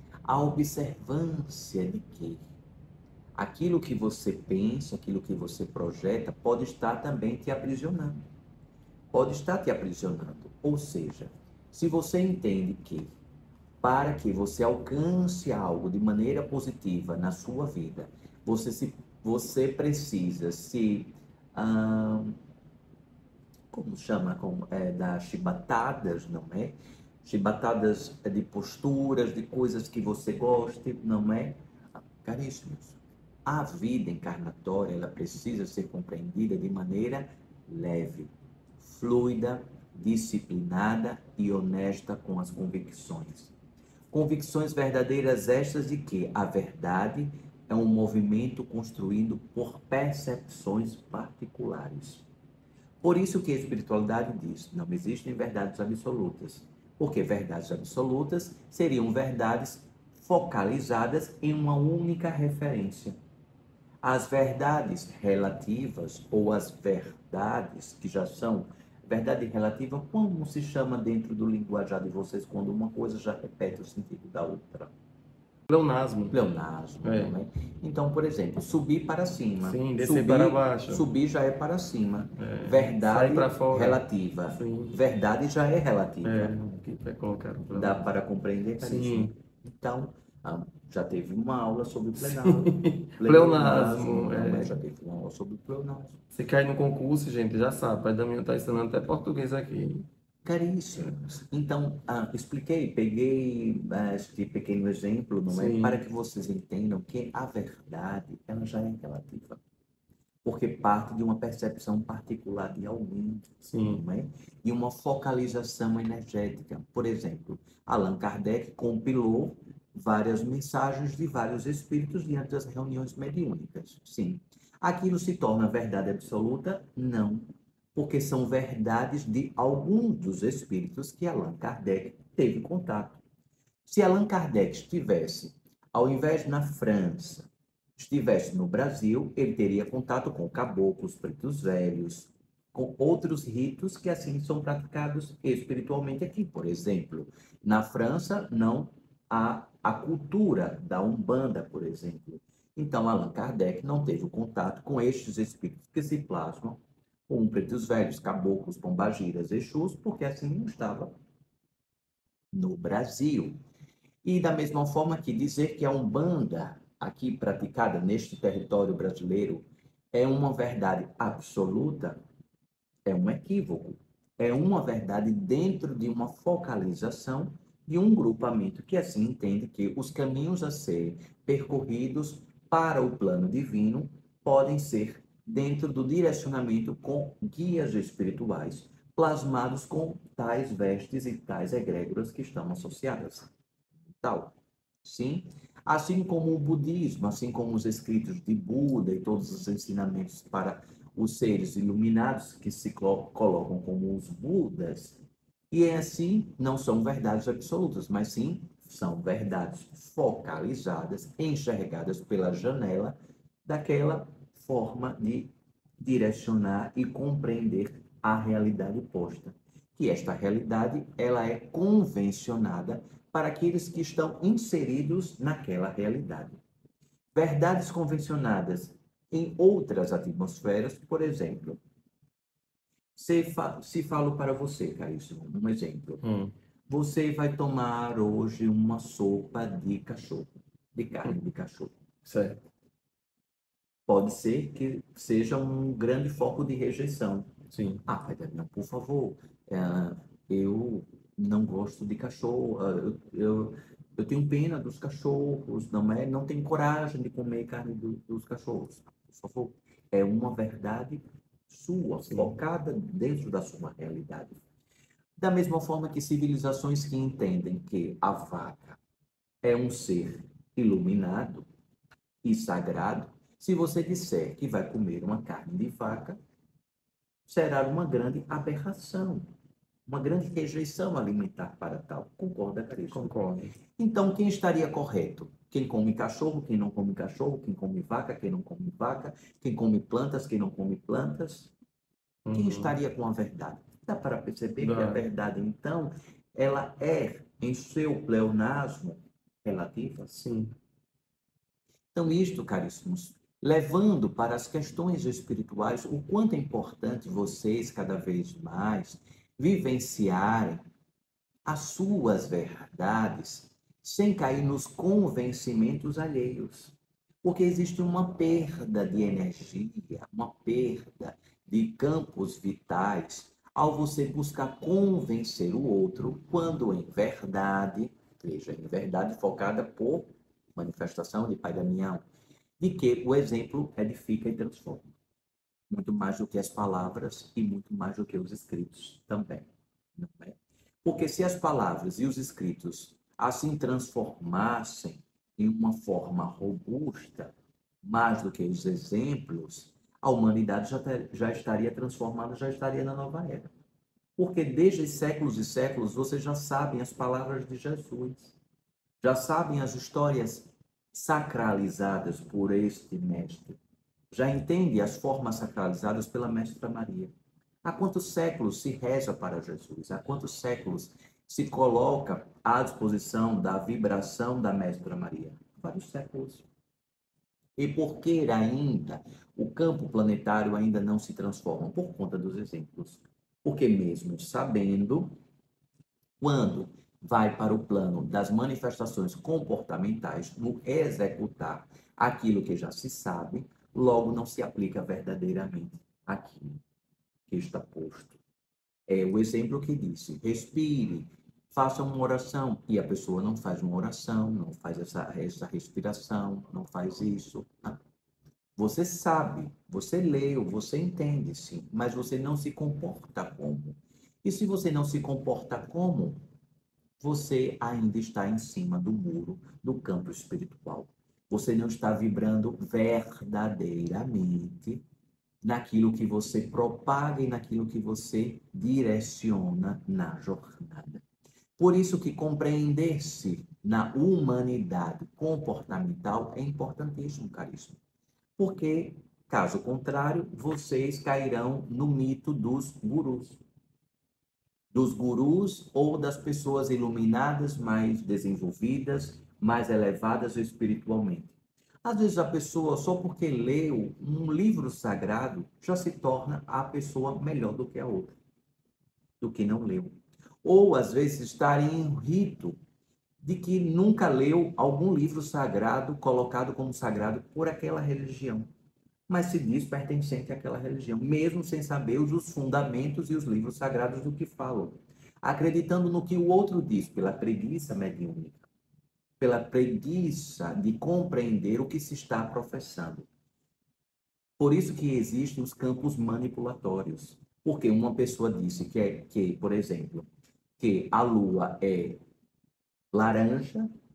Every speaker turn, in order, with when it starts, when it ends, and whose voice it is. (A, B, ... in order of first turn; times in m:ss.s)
0:00.3-0:02.4 A
0:03.4-0:08.2 A
0:09.1-0:13.1 A
0:13.8-0:22.4 A
0:23.7-0:43.5 A
0:44.1-0:52.3 A
0:53.0-1:03.2 A
1:04.0-1:14.9 A
1:15.7-1:16.4 B
1:16.3-1:26.6 A
1:17.0-1:17.4 B
1:19.6-1:21.1 B
1:22.4-1:25.0 B
1:26.2-1:28.0 B
1:27.7-1:36.2 A
1:28.8-1:29.3 B
1:32.3-1:34.8 B
1:36.3-1:40.1 B
1:40.4-1:49.6 A
1:45.5-1:46.0 B
1:50.4-2:13.2 A
1:53.6-1:54.0 B
2:13.9-2:41.1 A
2:42.5-2:43.6 A
2:44.2-2:52.2 A
2:53.1-3:13.5 A
3:14.2-3:25.2 A
3:25.7-3:46.6 A
3:47.4-3:51.8 A
3:53.2-3:56.2 A
3:56.2-3:56.5 B
3:56.9-4:02.0 A
4:02.2-4:02.6 B
4:04.1-4:07.5 A
4:07.7-4:08.0 B
4:08.1-4:24.6 A
4:22.3-4:22.5 B
4:25.4-4:29.0 A
4:29.6-4:31.7 A
4:32.4-4:36.4 A
4:37.5-4:39.5 A
4:40.1-4:43.4 A
4:43.1-4:43.8 B
4:44.0-4:51.7 A
4:52.4-4:53.0 B
4:52.5-5:00.3 A
4:54.8-4:55.2 B
5:00.3-5:00.7 B
5:02.1-5:10.8 A
5:11.7-5:32.2 A
5:32.8-5:35.1 A
5:35.9-5:53.7 A
5:54.4-5:58.6 A
5:59.2-6:03.8 A
6:04.3-6:07.3 A
6:07.8-6:16.7 A
6:17.8-6:25.3 A
6:26.4-6:36.8 A
6:37.5-6:38.4 A
6:39.1-6:48.0 A
6:48.8-6:56.4 A
6:57.2-7:05.0 A
7:05.6-7:11.2 A
7:11.8-7:18.0 A
7:18.6-7:23.6 A
7:24.9-7:38.4 A
7:39.4-7:42.8 A
7:43.4-7:48.7 A
7:49.3-7:58.7 A
7:59.4-8:03.3 A
8:04.6-8:10.3 A
8:10.8-8:12.2 A
8:13.1-8:13.9 A